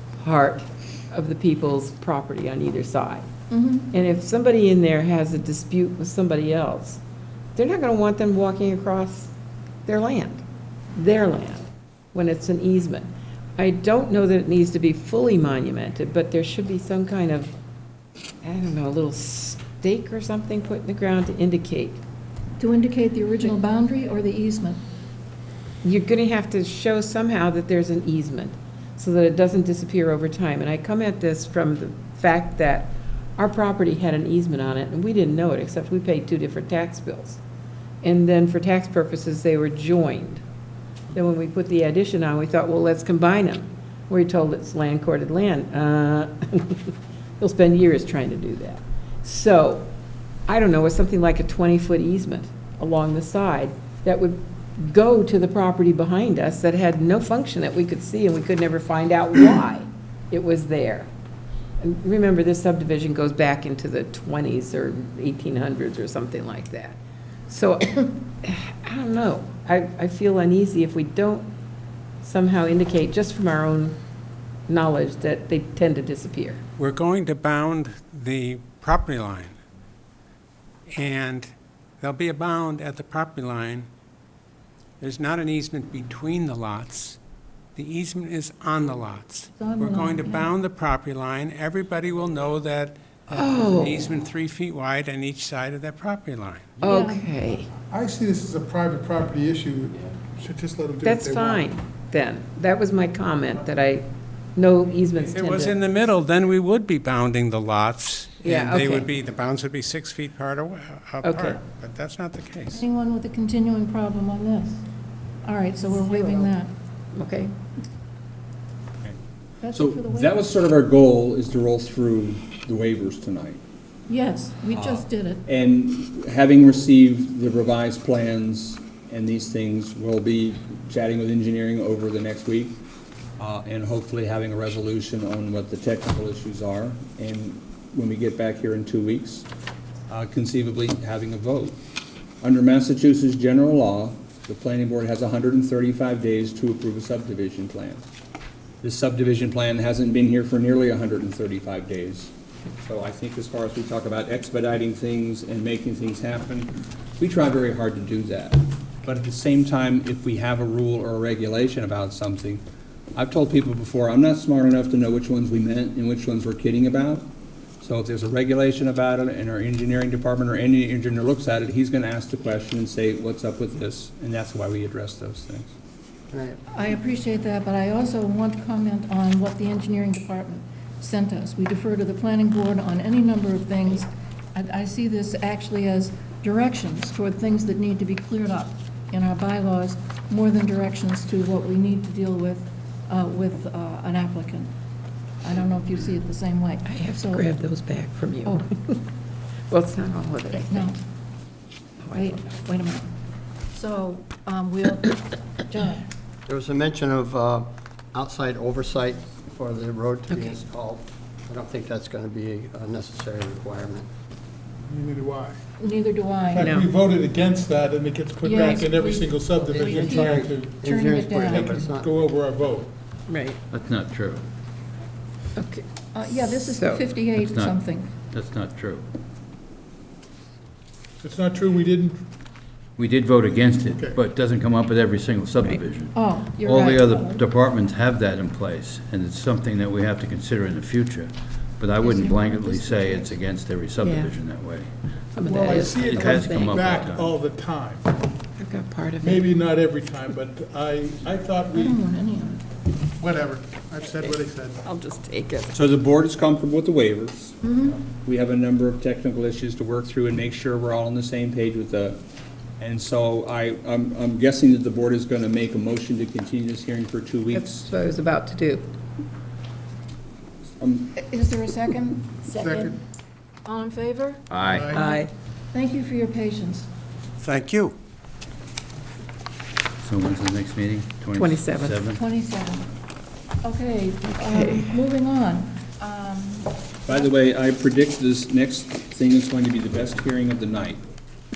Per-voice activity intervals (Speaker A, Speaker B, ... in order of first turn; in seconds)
Speaker A: 0.1-3.3, 3.9-7.0, 7.6-9.3, 9.9-17.5, 18.4-22.0, 25.8-37.4, 38.0-40.4, 41.1-49.9, 50.5-61.1, 61.8-71.5, 72.2-74.0, 74.7-76.6, 93.3-94.1, 96.8-97.7, 101.0-105.8, 108.4-109.1, 111.2-111.6, 117.2-117.5, 196.8-199.0, 199.7-201.0, 202.0-202.5, 210.3-210.6, 216.6-216.9, 223.3-223.6, 225.6-225.8, 226.6-227.1, 244.0-244.3, 245.3-246.9, 248.6-249.5, 254.1-255.8, 267.5-268.9, 274.9-275.3, 281.4-282.0, 284.2-285.0
Speaker B: 3.5-3.9, 22.6-24.8, 89.6-90.5, 96.8-97.3, 112.7-114.8, 115.4-116.7, 119.6-120.5, 124.1-125.5, 176.7-194.7, 195.4-197.5, 200.6-201.0, 202.1-203.1, 203.7-206.1, 215.8-216.9, 218.4-222.0, 226.1-228.1, 236.1-237.4, 242.0-243.3, 251.7-252.6, 257.6-258.0, 271.2-273.0, 273.6-276.9, 282.2-282.9, 283.6-287.3
Speaker C: 76.8-79.6, 80.9-83.9, 85.0-87.2, 87.8-96.8, 105.2-112.8, 277.4-278.0
Speaker D: 97.9-101.7, 214.9-215.6, 216.5-220.8, 221.5-222.9, 231.2-232.3, 245.5-248.1, 249.2-252.0, 253.2-254.8, 272.6-273.0, 274.7-274.9
Speaker E: 119.7-123.6, 124.7-132.8, 133.4-139.5, 140.1-141.8, 142.4-148.1, 148.8-162.6, 163.2-167.3, 167.8-175.7, 255.7-262.2, 262.8-267.9, 270.8-271.2, 287.1-291.0
Speaker F: 176.3-176.6, 206.5-214.1, 219.7-222.1
Speaker G: 223.7-224.4, 227.4-229.1, 233.0-244.9, 245.8-247.3, 274.5-275.0, 280.0-282.2